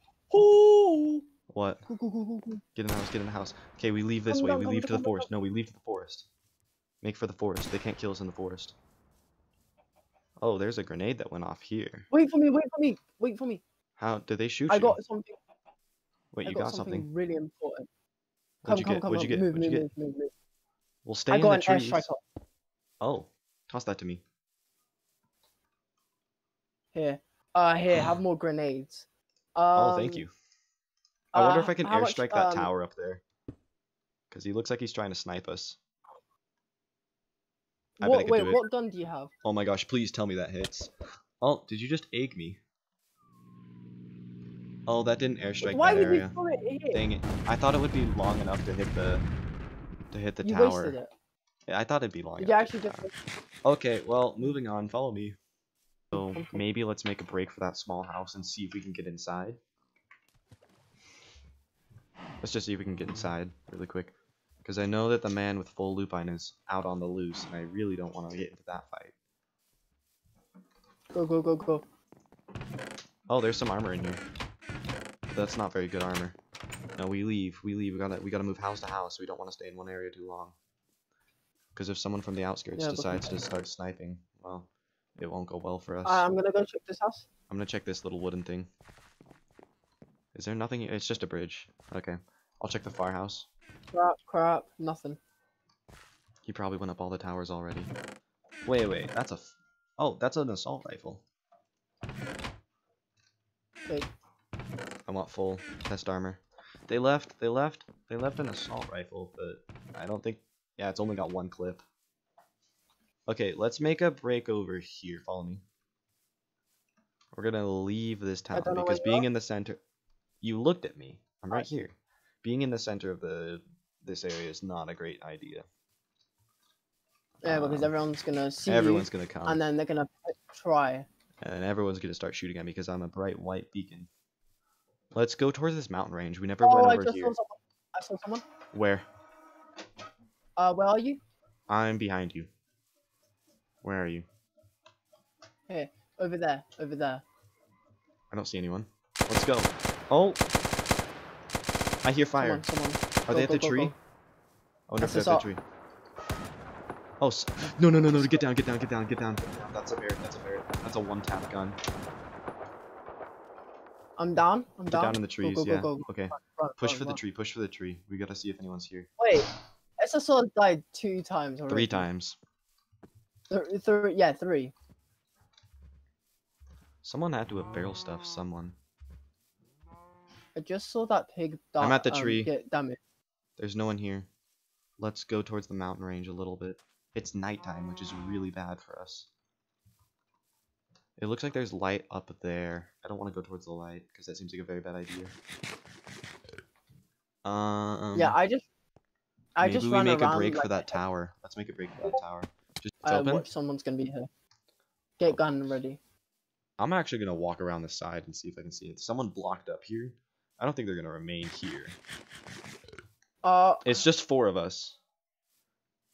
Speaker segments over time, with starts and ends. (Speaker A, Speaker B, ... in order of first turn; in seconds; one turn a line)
Speaker A: 0.3-1.2
Speaker B: 1.5-1.8
Speaker A: 1.9-2.6
Speaker B: 2.7-6.3
Speaker A: 4.3-5.3
Speaker B: 7.0-8.7
Speaker B: 10.4-12.1
Speaker A: 12.1-13.6
Speaker B: 14.0-15.0
Speaker A: 14.7-15.4
Speaker B: 16.3-17.1
Speaker A: 16.4-17.9
Speaker B: 18.6-19.9
Speaker A: 18.6-20.3
Speaker B: 21.0-22.1
Speaker A: 21.3-22.2
Speaker B: 23.0-24.2
Speaker A: 26.9-30.2
Speaker B: 29.7-30.3
Speaker A: 31.3-32.7
Speaker B: 31.3-33.2
Speaker B: 34.3-35.8
Speaker B: 38.0-38.6
Speaker A: 38.0-39.3
Speaker B: 39.4-42.6
Speaker B: 44.9-46.3
Speaker A: 45.6-47.0
Speaker B: 46.9-49.2
Speaker B: 50.1-51.0
Speaker A: 50.4-51.1
Speaker B: 51.7-53.0
Speaker A: 52.4-53.1
Speaker B: 53.6-55.4
Speaker B: 56.1-59.6
Speaker A: 56.1-56.6
Speaker B: 62.4-69.1
Speaker A: 71.1-71.8
Speaker B: 73.3-74.2
Speaker B: 75.3-76.3
Speaker B: 77.0-80.5
Speaker B: 81.7-86.2
Speaker A: 82.8-83.3
Speaker A: 86.0-87.2
Speaker B: 87.5-88.7
Speaker B: 90.3-93.5
Speaker A: 93.9-95.2
Speaker B: 96.5-97.9
Speaker B: 98.7-101.2
Speaker B: 105.0-111.8
Speaker B: 113.2-115.6
Speaker B: 117.3-119.8
Speaker A: 118.5-119.2
Speaker B: 120.4-125.7
Speaker A: 127.4-131.1
Speaker B: 127.4-127.9
Speaker B: 128.6-129.6
Speaker B: 131.4-134.1
Speaker B: 135.1-137.3
Speaker A: 136.6-138.4
Speaker B: 138.7-139.1
Speaker A: 140.6-141.2
Speaker B: 141.7-142.5
Speaker B: 143.8-144.2
Speaker A: 145.7-147.2
Speaker B: 148.3-150.4
Speaker B: 152.0-152.6
Speaker A: 152.4-153.9
Speaker B: 153.3-153.9
Speaker B: 154.9-155.6
Speaker A: 155.0-155.4
Speaker B: 157.2-161.8
Speaker A: 158.1-158.4
Speaker A: 164.2-167.2
Speaker B: 164.9-169.1
Speaker A: 169.2-172.1
Speaker B: 171.7-172.4
Speaker A: 173.5-174.7
Speaker B: 177.0-178.8
Speaker A: 180.5-183.0
Speaker B: 181.8-182.5
Speaker B: 183.6-184.3
Speaker B: 185.0-189.3
Speaker B: 191.2-195.3
Speaker B: 197.4-198.3
Speaker A: 198.1-198.7
Speaker A: 199.6-201.0
Speaker B: 199.6-203.4
Speaker A: 203.0-204.3
Speaker A: 205.2-206.0
Speaker B: 206.8-212.0
Speaker A: 213.4-213.9
Speaker B: 213.8-215.0